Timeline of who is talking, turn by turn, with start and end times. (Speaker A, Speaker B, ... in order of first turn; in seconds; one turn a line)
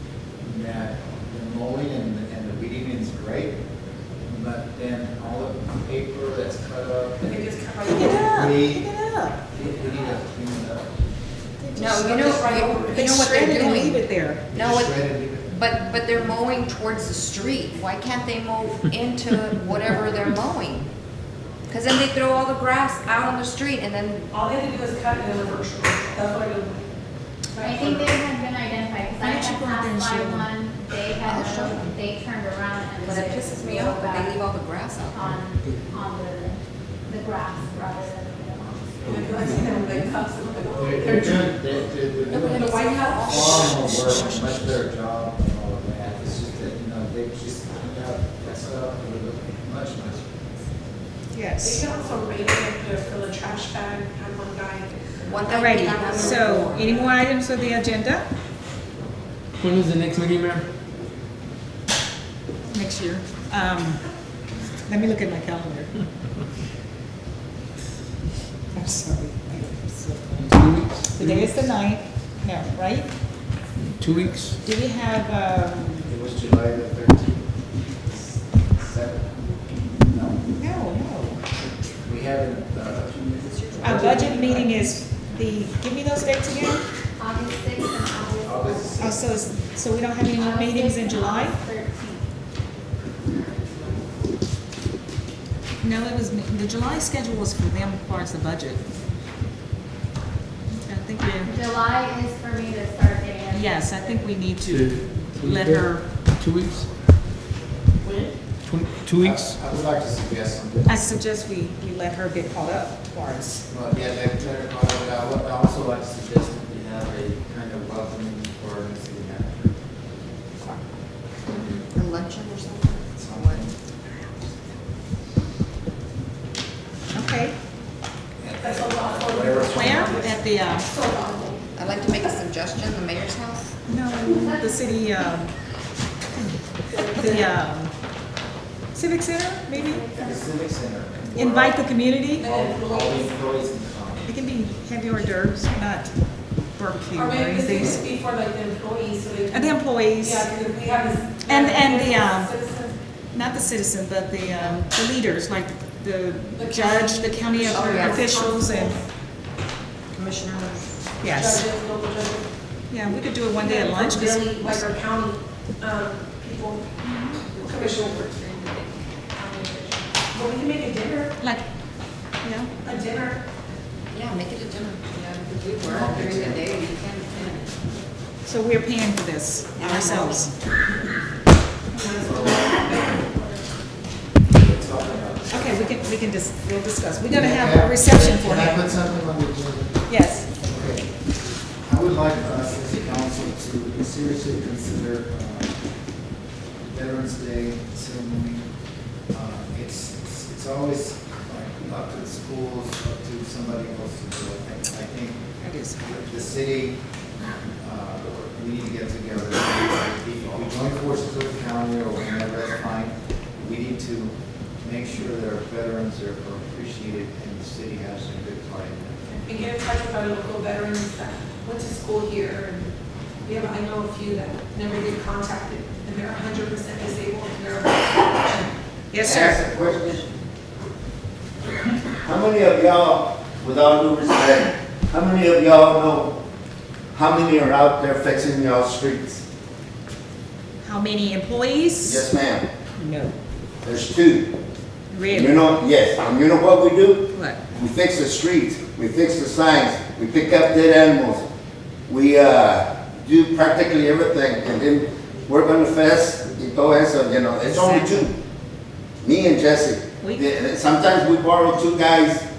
Speaker A: 0.4-3.6
Speaker A: 4.2-8.9
Speaker B: 7.2-8.3
Speaker C: 7.8-9.4
Speaker A: 9.5-10.9
Speaker C: 11.6-12.0
Speaker D: 11.7-20.9
Speaker B: 11.9-13.1
Speaker C: 12.8-14.5
Speaker A: 14.5-15.7
Speaker D: 21.7-24.2
Speaker B: 24.3-26.9
Speaker B: 27.5-28.1
Speaker E: 27.6-34.4
Speaker C: 29.2-30.5
Speaker D: 31.2-31.9
Speaker D: 33.0-35.2
Speaker E: 35.1-39.9
Speaker B: 39.0-41.5
Speaker A: 40.8-50.3
Speaker F: 41.1-41.5
Speaker D: 42.2-44.7
Speaker B: 42.4-43.5
Speaker C: 51.3-51.9
Speaker B: 51.6-57.1
Speaker D: 55.3-57.0
Speaker C: 55.5-58.2
Speaker F: 59.6-60.7
Speaker C: 62.7-64.0
Speaker C: 64.8-66.0
Speaker C: 68.7-73.1
Speaker F: 70.4-71.7
Speaker F: 73.9-74.6
Speaker C: 74.6-76.1
Speaker A: 76.0-77.5
Speaker A: 78.0-80.5
Speaker C: 80.6-81.4
Speaker A: 82.0-84.7
Speaker D: 83.4-84.4
Speaker C: 83.8-86.8
Speaker E: 87.2-89.1
Speaker A: 88.4-89.3
Speaker C: 89.0-91.6
Speaker E: 90.3-92.2
Speaker C: 95.8-98.8
Speaker C: 100.7-101.5
Speaker E: 101.4-104.4
Speaker C: 103.5-106.2
Speaker F: 104.6-106.9
Speaker F: 108.6-109.6
Speaker A: 109.2-111.0
Speaker C: 110.8-113.6
Speaker A: 113.7-119.7
Speaker D: 121.5-123.6
Speaker A: 123.1-123.8
Speaker C: 127.1-127.5
Speaker A: 128.4-130.4
Speaker B: 128.6-130.2
Speaker C: 129.7-130.9
Speaker B: 130.8-131.7
Speaker D: 131.7-133.7
Speaker C: 133.9-135.5
Speaker B: 136.9-137.2
Speaker C: 137.1-137.9
Speaker C: 138.9-140.0
Speaker D: 139.8-140.3
Speaker A: 140.1-141.8
Speaker C: 141.3-142.5
Speaker B: 142.4-143.3
Speaker A: 142.4-144.3
Speaker C: 144.3-146.1
Speaker C: 146.7-148.0
Speaker B: 147.1-152.9
Speaker C: 149.5-150.5
Speaker C: 151.4-152.5
Speaker C: 153.3-159.0
Speaker B: 156.6-159.0
Speaker D: 157.7-158.3
Speaker D: 160.1-161.0
Speaker C: 161.2-161.6
Speaker B: 161.3-162.5
Speaker C: 162.9-164.9
Speaker B: 163.4-166.9
Speaker C: 167.0-167.5
Speaker B: 167.5-171.3
Speaker D: 167.6-168.3
Speaker C: 172.4-172.7
Speaker B: 172.8-173.4
Speaker D: 174.1-177.7
Speaker A: 175.8-176.7
Speaker C: 178.4-180.5
Speaker D: 179.8-180.4
Speaker B: 181.9-183.6
Speaker A: 182.2-182.7
Speaker A: 184.5-186.0
Speaker C: 185.5-188.8
Speaker A: 187.3-190.0
Speaker C: 190.1-190.5
Speaker A: 190.6-191.1
Speaker A: 191.8-195.7
Speaker A: 196.8-198.7
Speaker A: 199.3-205.4
Speaker C: 205.6-206.2
Speaker A: 206.0-207.0
Speaker A: 207.8-219.2
Speaker B: 219.3-222.9
Speaker B: 223.4-228.6
Speaker C: 229.1-229.6
Speaker G: 229.2-230.3
Speaker G: 232.2-236.3
Speaker G: 237.1-239.4
Speaker C: 240.8-242.3
Speaker G: 242.0-242.7
Speaker C: 243.0-243.3
Speaker G: 243.8-244.5
Speaker C: 245.1-245.6
Speaker G: 245.3-251.4
Speaker C: 247.3-247.6
Speaker G: 252.1-258.3
Speaker C: 257.6-258.3
Speaker G: 259.2-262.4